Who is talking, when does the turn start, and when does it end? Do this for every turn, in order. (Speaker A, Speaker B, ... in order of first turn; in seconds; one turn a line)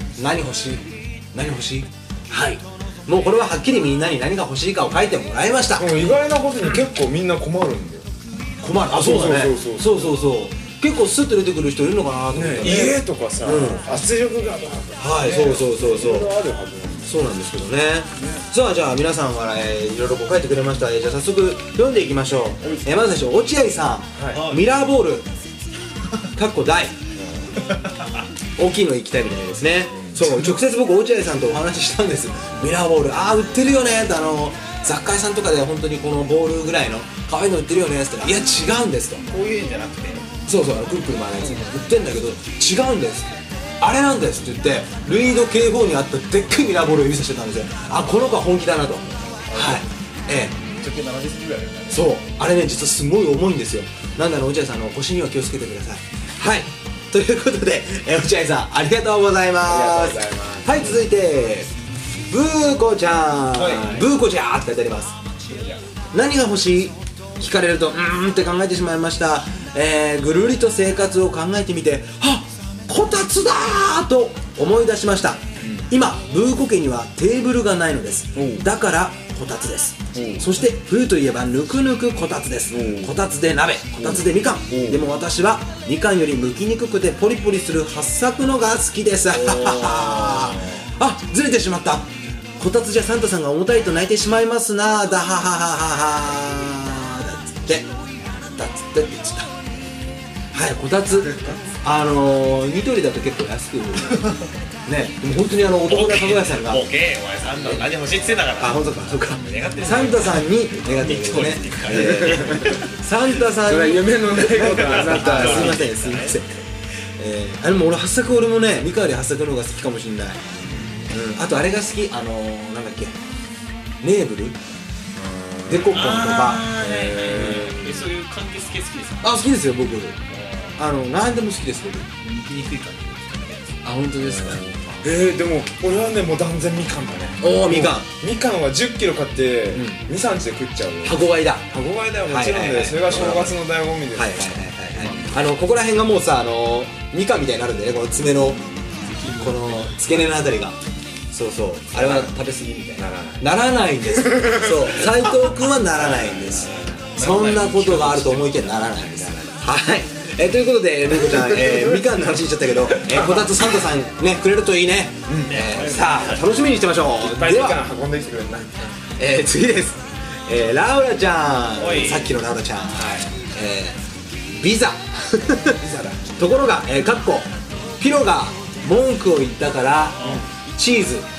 Speaker A: 0.2-6.0
Speaker B: 5.8-8.1
Speaker A: 8.6-13.9
Speaker B: 8.9-10.1
Speaker B: 12.3-17.2
Speaker A: 15.0-16.4
Speaker A: 17.1-25.3
Speaker B: 24.2-24.5
Speaker C: 24.3-24.7
Speaker A: 26.4-27.0
Speaker B: 27.2-27.6
Speaker C: 27.6-28.2
Speaker A: 28.6-39.2
Speaker B: 29.9-30.3
Speaker C: 39.3-40.3
Speaker A: 40.5-50.6
Speaker C: 49.3-49.8
Speaker C: 50.7-52.1
Speaker A: 51.9-61.7
Speaker B: 59.6-60.7
Speaker A: 62.3-65.2
Speaker C: 63.6-64.1
Speaker B: 65.5-65.8
Speaker A: 66.1-99.5
Speaker B: 75.6-75.9
Speaker B: 78.3-78.7
Speaker B: 80.1-80.5
Speaker B: 82.7-83.2
Speaker B: 84.0-85.0
Speaker B: 89.3-90.9
Speaker A: 100.5-104.3
Speaker A: 104.9-106.9
Speaker C: 105.9-113.0
Speaker A: 108.5-116.6
Speaker B: 111.9-112.9
Speaker B: 113.6-115.9
Speaker C: 114.7-116.4
Speaker A: 117.2-120.4
Speaker A: 121.1-123.2
Speaker A: 124.0-124.6
Speaker B: 125.2-126.0
Speaker A: 125.7-126.8
Speaker C: 125.9-129.3
Speaker B: 126.8-127.9
Speaker A: 129.2-130.2
Speaker A: 130.8-132.1
Speaker C: 132.2-133.8
Speaker A: 133.8-135.1
Speaker B: 134.2-144.4
Speaker A: 137.4-138.1
Speaker A: 139.7-140.0
Speaker A: 141.0-143.6
Speaker A: 144.1-148.6
Speaker A: 149.4-150.8
Speaker C: 149.4-150.1
Speaker A: 151.3-167.8
Speaker B: 152.0-152.3
Speaker B: 153.0-153.4
Speaker B: 154.2-155.4
Speaker B: 156.2-157.2
Speaker C: 157.1-159.1
Speaker C: 165.4-166.6
Speaker B: 167.2-169.0
Speaker A: 169.2-174.0
Speaker C: 171.8-172.3
Speaker B: 172.9-173.3
Speaker A: 174.5-181.3
Speaker B: 175.8-176.2
Speaker C: 180.2-180.4